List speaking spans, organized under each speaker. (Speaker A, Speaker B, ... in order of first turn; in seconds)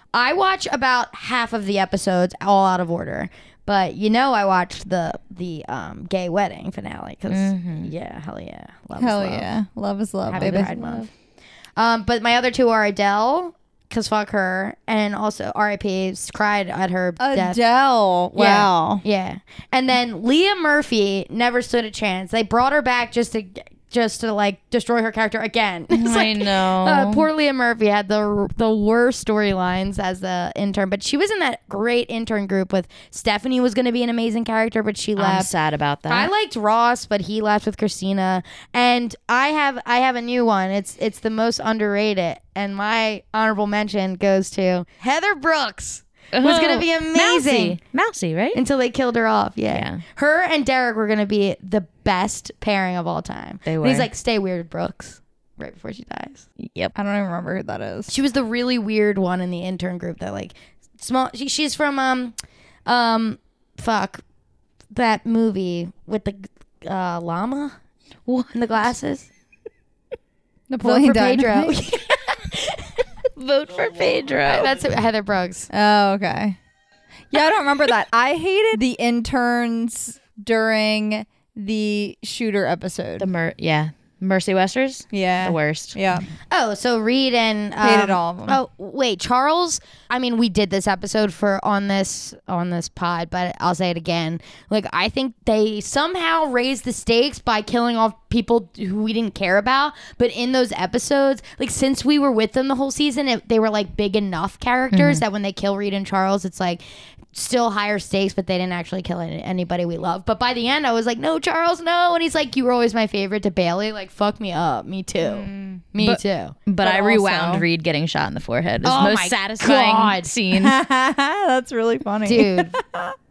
Speaker A: 0.1-9.5, 10.3-11.1, 11.8-17.6, 18.4-35.5, 36.1-47.8, 48.5-56.5, 58.1-62.3, 62.9-64.2, 64.9-67.8, 68.5-69.3, 70.7-72.9, 74.5-75.7, 86.5-106.8, 107.3-116.6, 118.8-120.3, 122.2-122.8
Speaker B: 7.3-7.9, 10.3-11.1, 25.9-27.3, 35.2-36.3, 46.3-48.6, 49.7-50.0, 53.7-54.1, 56.6-56.9, 68.3-68.6, 73.4-74.7, 83.2-86.0, 104.9-105.2, 116.0-120.8
Speaker C: 9.0-10.7, 17.2-19.0, 57.0-58.2, 70.8-71.8, 75.7-76.6, 77.3-83.3, 85.1-86.3, 87.8-88.6, 115.4-115.8, 116.8-117.6, 120.5-123.2